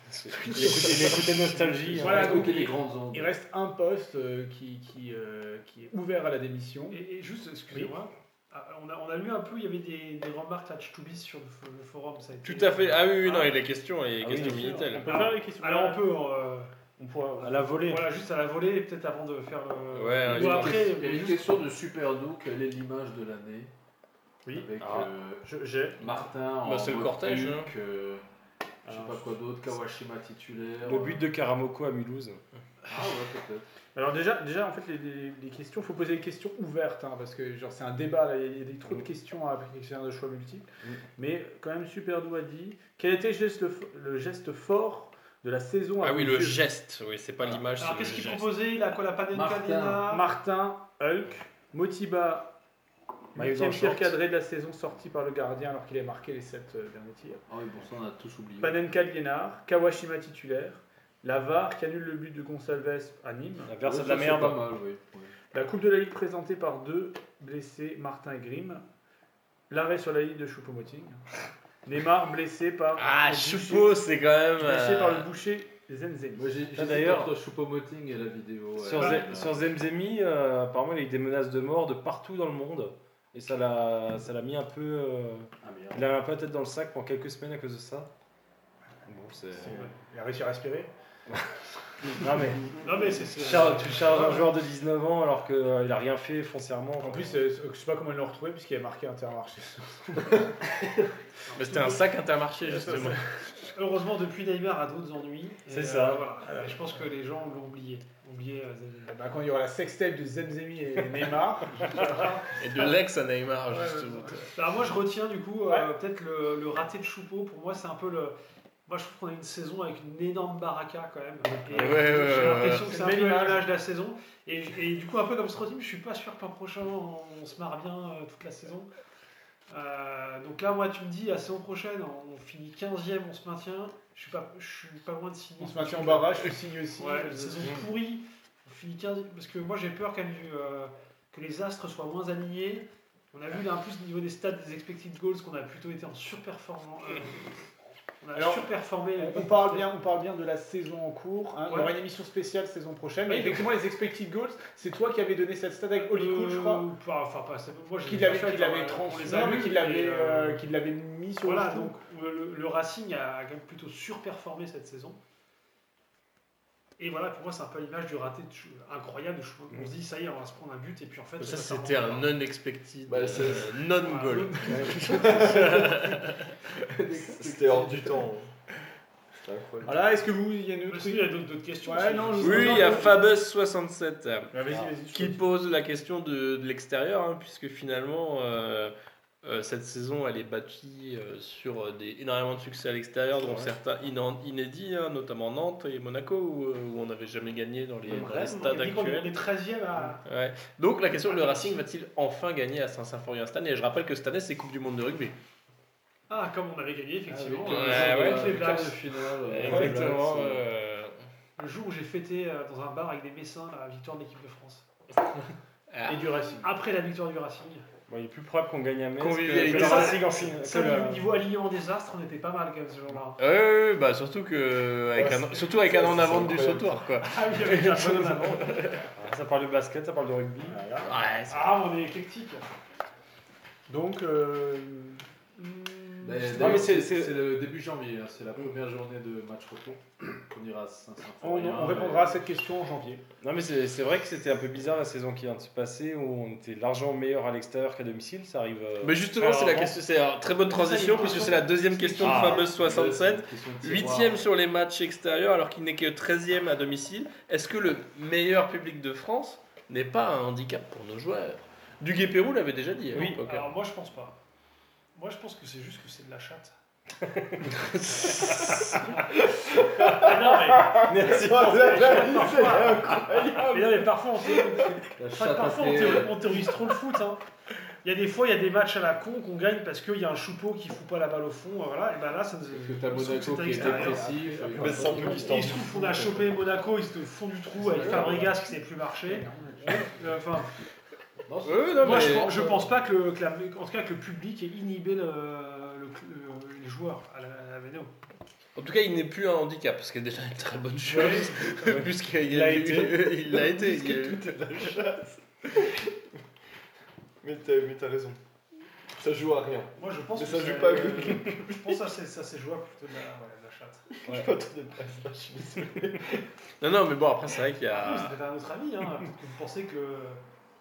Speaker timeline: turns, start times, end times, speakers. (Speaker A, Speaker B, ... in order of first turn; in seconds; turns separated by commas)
Speaker A: 0.3-2.6, Speaker B: 0.6-1.2, Speaker C: 1.8-3.3, Speaker B: 1.9-7.0, Speaker D: 6.9-13.6, Speaker E: 12.4-15.1, Speaker A: 14.2-15.4, Speaker B: 14.8-16.1, Speaker D: 15.1-16.7, Speaker B: 17.0-17.8, Speaker A: 17.4-18.0, Speaker D: 17.7-21.4, Speaker E: 19.9-21.0, Speaker C: 20.3-23.7, Speaker B: 24.4-24.7, Speaker C: 24.5-28.2, Speaker B: 25.4-26.2, Speaker E: 26.6-27.7, Speaker C: 28.9-31.2, Speaker B: 28.9-29.3, Speaker A: 30.9-32.4, Speaker C: 32.9-33.6, Speaker B: 34.0-40.7, Speaker B: 41.2-46.6, Speaker E: 46.0-48.6, Speaker D: 47.8-50.2, Speaker C: 49.3-50.1, Speaker B: 50.1-52.5, Speaker B: 53.3-57.4, Speaker A: 53.4-54.2, Speaker C: 57.5-58.8, Speaker B: 58.6-63.8, Speaker A: 63.7-64.6, Speaker C: 63.8-65.3, Speaker B: 65.5-68.8, Speaker B: 69.7-71.2, Speaker B: 71.8-73.9, Speaker E: 73.0-75.3, Speaker B: 74.6-76.5, Speaker C: 76.3-79.7, Speaker A: 76.8-77.3, Speaker A: 78.8-88.1, Speaker C: 85.6-86.1, Speaker A: 89.1-89.8, Speaker B: 89.6-90.9, Speaker D: 89.7-90.0, Speaker A: 92.0-92.7, Speaker D: 92.8-94.5, Speaker A: 93.4-97.5, Speaker B: 97.0-100.5, Speaker D: 101.5-102.0, Speaker E: 101.5-103.2, Speaker B: 102.8-103.1, Speaker D: 103.6-109.2, Speaker A: 105.7-106.2, Speaker B: 106.5-106.8, Speaker B: 109.1-112.9, Speaker D: 111.8-112.6, Speaker E: 112.6-114.5, Speaker D: 114.4-118.4, Speaker D: 118.9-128.9, Speaker B: 121.7-123.7, Speaker E: 121.7-122.9, Speaker D: 129.7-147.7, Speaker B: 135.6-137.8, Speaker D: 148.2-149.9, Speaker B: 148.3-156.9, Speaker D: 151.7-152.0, Speaker D: 153.3-153.7, Speaker D: 156.0-160.6, Speaker B: 158.0-162.0, Speaker D: 161.4-165.2, Speaker D: 167.0-172.3, Speaker E: 171.4-176.6, Speaker F: 173.1-173.8, Speaker D: 174.0-175.3, Speaker B: 174.7-175.1, Speaker F: 175.1-175.9, Speaker C: 176.9-178.3, Speaker F: 177.3-178.5, Speaker F: 179.4-180.0, Speaker B: 179.8-183.2, Speaker D: 180.9-183.3, Speaker E: 182.4-184.5, Speaker B: 184.5-185.4, Speaker E: 185.1-199.3, Speaker A: 193.4-193.7, Speaker D: 198.1-200.2, Speaker E: 200.2-205.4, Speaker D: 201.3-201.8, Speaker D: 206.3-209.1, Speaker C: 207.3-210.6, Speaker E: 207.7-208.7, Speaker E: 209.5-211.2, Speaker A: 209.5-210.5, Speaker D: 211.6-214.9, Speaker E: 215.9-216.3, Speaker B: 216.1-216.7, Speaker D: 216.6-217.9, Speaker A: 218.1-221.3, Speaker E: 219.2-220.2, Speaker D: 219.7-223.4, Speaker E: 223.4-229.0, Speaker F: 225.2-227.0, Speaker B: 225.3-225.6, Speaker D: 227.2-228.8, Speaker A: 229.2-230.8, Speaker B: 230.7-231.1, Speaker E: 231.0-231.9, Speaker D: 231.5-232.7, Speaker B: 233.9-236.9, Speaker C: 236.2-242.4, Speaker A: 236.5-237.4, Speaker B: 241.4-243.2, Speaker A: 243.4-250.0, Speaker E: 249.0-263.7, Speaker D: 250.7-252.7, Speaker B: 251.2-251.4, Speaker A: 252.2-252.7, Speaker C: 252.3-254.5, Speaker A: 263.1-263.4, Speaker D: 263.2-264.4, Speaker D: 265.2-266.8, Speaker A: 267.2-267.7, Speaker E: 267.7-269.1, Speaker F: 269.2-274.9, Speaker D: 270.1-277.4, Speaker A: 271.0-272.1, Speaker C: 275.2-276.5, Speaker D: 278.0-284.3, Speaker C: 282.7-285.7, Speaker B: 283.8-285.3, Speaker F: 284.7-286.6, Speaker D: 285.2-290.7, Speaker C: 287.9-288.5, Speaker B: 288.0-288.4, Speaker B: 289.2-290.2, Speaker C: 291.5-292.9, Speaker E: 291.6-292.6, Speaker D: 292.0-298.1, Speaker E: 298.8-304.9, Speaker B: 301.1-303.8, Speaker F: 303.8-306.1, Speaker F: 307.4-308.4, Speaker F: 309.2-312.0, Speaker D: 310.0-314.1, Speaker F: 314.1-316.5, Speaker A: 314.3-314.5, Speaker E: 316.8-318.4, Speaker D: 317.9-320.4